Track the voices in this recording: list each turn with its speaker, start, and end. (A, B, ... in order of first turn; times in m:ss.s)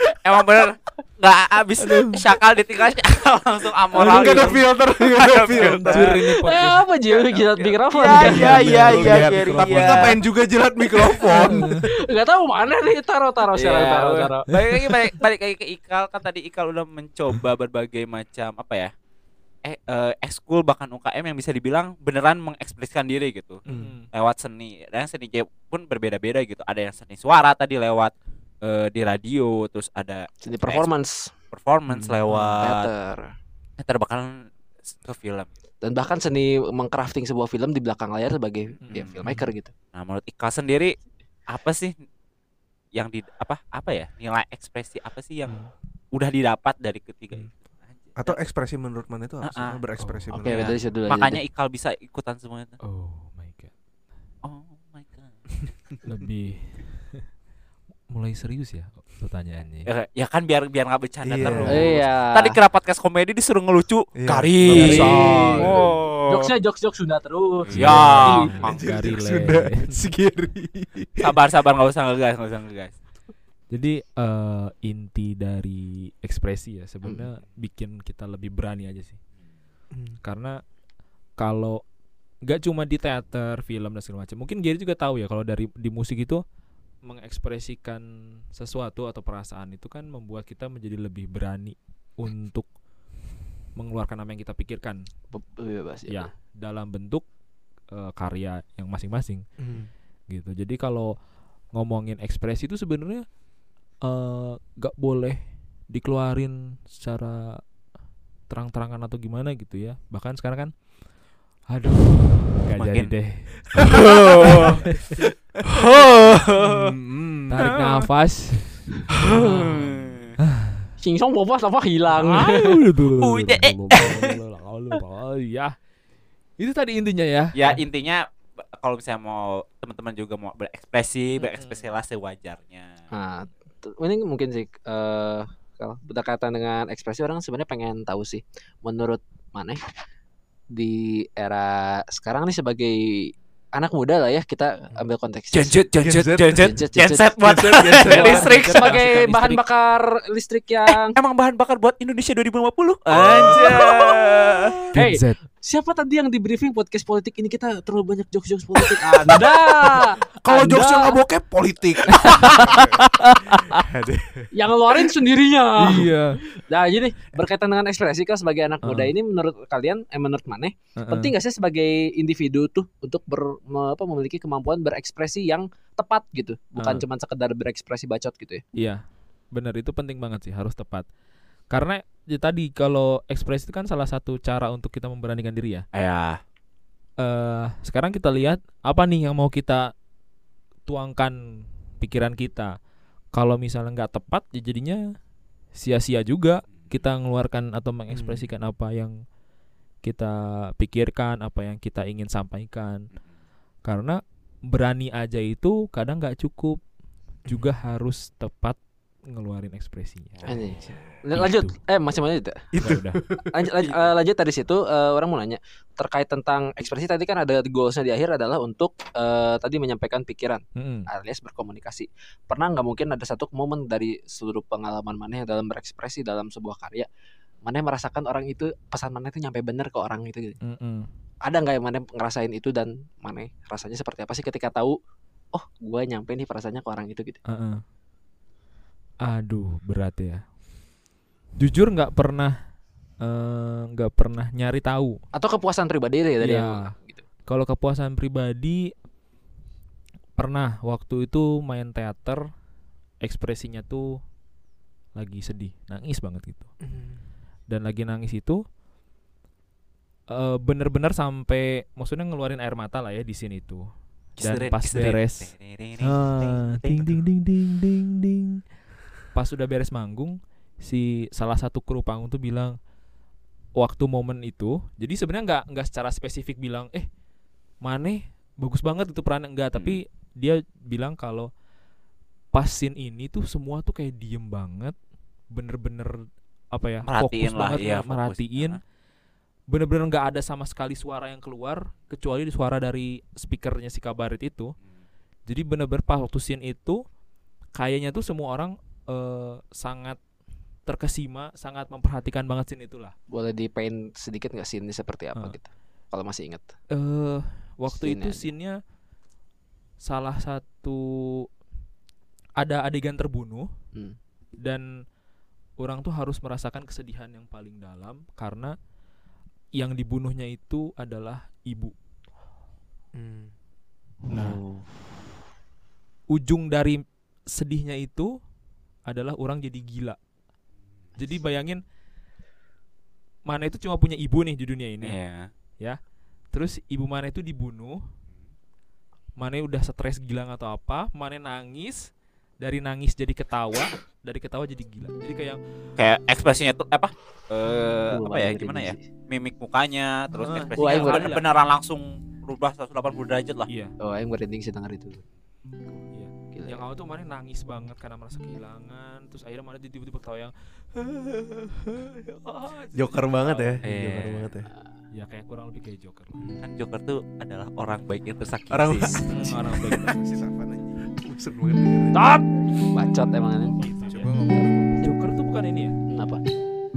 0:00.2-0:06.4 A
0:01.8-0:02.2 B
0:03.9-0:04.6 B
0:03.9-0:06.3 C
0:05.6-0:06.8 B
0:06.4-0:09.4 D
0:07.1-0:10.2 A
0:08.1-0:10.2 B
0:08.3-0:11.9 C
0:11.2-0:14.5 D
0:11.3-0:11.8 B
0:13.5-0:18.9 A
0:14.5-0:15.1 B
0:19.6-0:30.9 A
0:23.7-0:23.9 C
0:23.7-0:24.1 B
0:30.4-0:31.3 D
0:31.5-0:32.9 A
0:31.9-0:32.5 C
0:32.3-0:32.6 B
0:32.6-0:33.3 D
0:33.8-0:35.5 A
0:35.8-0:39.7 D
0:38.8-0:39.3 B
0:38.9-0:39.2 A
0:39.9-0:40.9 A
0:41.5-0:41.9 A
0:42.9-0:48.4 A
0:48.2-0:50.8 C
0:49.4-0:49.8 A
0:50.0-0:50.3 B
0:50.3-0:51.4 D
0:50.4-0:52.8 A
0:52.8-0:53.7 B
0:54.4-0:55.6 A
0:56.0-0:57.2 B
0:58.1-0:59.9 B
0:59.8-1:06.5 A
1:01.2-1:02.0 C
1:01.4-1:01.9 B
1:01.6-1:02.6 D
1:04.2-1:05.9 C
1:04.7-1:05.8 B
1:04.8-1:05.3 D
1:06.3-1:08.6 D
1:07.7-1:08.8 A
1:07.7-1:10.0 B
1:08.5-1:11.4 C
1:11.2-1:12.9 A
1:13.7-1:19.2 B
1:20.2-1:20.6 B
1:21.4-1:21.8 B
1:22.4-1:26.4 B
1:27.0-1:32.7 B
1:33.8-1:35.0 B
1:35.3-1:36.3 D
1:36.1-1:37.2 B
1:37.9-1:39.4 B
1:40.3-1:41.2 B
1:41.7-1:43.2 B
1:44.0-1:47.6 B
1:48.5-1:50.9 B
1:51.7-1:55.2 B
1:52.8-1:53.1 A
1:53.8-1:54.8 A
1:53.8-1:54.8 C
1:55.6-1:56.9 A
1:56.0-1:57.7 C
1:57.5-1:59.7 B
1:57.5-1:58.0 A
1:59.2-2:00.3 A
2:00.6-2:00.8 B
2:01.0-2:02.8 D
2:02.1-2:05.7 B
2:03.2-2:04.4 A
2:06.6-2:07.7 B
2:07.5-2:12.9 A
2:11.5-2:11.8 B
2:13.1-2:19.8 D
2:20.7-2:25.8 D
2:25.5-2:28.9 A
2:26.0-2:26.8 C
2:26.6-2:27.3 D
2:27.4-2:28.5 C
2:27.8-2:31.1 D
2:27.9-2:29.6 B
2:31.0-2:34.8 A
2:33.1-2:33.7 C
2:33.2-2:34.3 D
2:34.9-2:35.4 B
2:34.9-2:41.2 D
2:40.4-2:45.0 C
2:42.2-2:43.8 B
2:44.5-2:58.6 D
2:45.8-2:46.4 B
2:48.8-2:49.1 B
2:51.0-2:51.3 B
2:56.8-2:57.0 B
2:58.7-3:01.1 B
3:01.7-3:05.8 B
3:05.9-3:06.4 A
3:07.2-3:09.9 B
3:10.8-3:12.7 B
3:13.3-3:15.1 B
3:15.7-3:19.2 B
3:18.1-3:18.5 D
3:20.0-3:23.1 B
3:23.8-3:26.8 B
3:27.4-3:30.5 B
3:30.3-3:30.7 A
3:30.4-3:32.7 D
3:31.3-3:31.7 B
3:32.7-3:33.5 C
3:32.8-3:33.2 B
3:33.5-3:47.1 D
3:40.7-3:41.1 B
3:47.6-3:50.6 D
3:50.6-3:51.1 B
3:51.4-3:55.0 D
3:55.5-3:57.4 D
3:57.4-3:57.8 B
3:59.2-4:00.4 B
4:01.6-4:02.6 B
4:03.2-4:05.2 B
4:05.3-4:07.2 D
4:06.4-4:06.9 B
4:07.4-4:08.9 B
4:10.4-4:12.4 B
4:13.2-4:14.2 B
4:15.1-4:16.7 B
4:16.8-4:17.2 D
4:17.7-4:18.6 B
4:20.3-4:23.8 B
4:24.4-4:27.1 A
4:24.4-4:28.6 B
4:29.3-4:32.8 B
4:33.8-4:37.1 B
4:37.8-4:41.5 B
4:42.5-4:44.9 B
4:45.5-4:48.8 B
4:47.0-4:48.8 A
4:49.7-4:54.7 B
4:55.5-4:57.0 B
4:57.7-5:00.2 B
5:00.8-5:03.1 B
5:03.3-5:06.7 D
5:06.9-5:08.8 B
5:07.9-5:08.4 D
5:10.0-5:11.5 B
5:12.6-5:13.7 B
5:14.6-5:15.0 B
5:15.8-5:18.8 B
5:19.7-5:21.9 B
5:23.1-5:23.5 D
5:24.3-5:24.6 B
5:24.3-5:24.9 D
5:26.3-5:28.3 B
5:29.0-5:30.2 B
5:31.2-5:31.8 B
5:33.4-5:35.2 B
5:35.0-5:35.5 A
5:36.5-5:38.0 B
5:39.4-5:42.1 B
5:42.6-5:45.6 B
5:46.0-5:53.7 A
5:48.1-5:49.0 D
5:50.3-5:51.5 B
5:50.8-5:51.3 D
5:53.7-5:53.9 B
5:54.0-5:55.2 D
5:55.9-5:56.8 D
5:56.1-6:03.8 B
6:02.9-6:04.7 C
6:03.8-6:04.5 A
6:05.1-6:06.4 B
6:06.6-6:09.2 A
6:08.7-6:12.2 C
6:09.3-6:10.2 B
6:12.1-6:13.8 D
6:13.8-6:15.2 C
6:15.0-6:16.0 B
6:16.1-6:16.4 D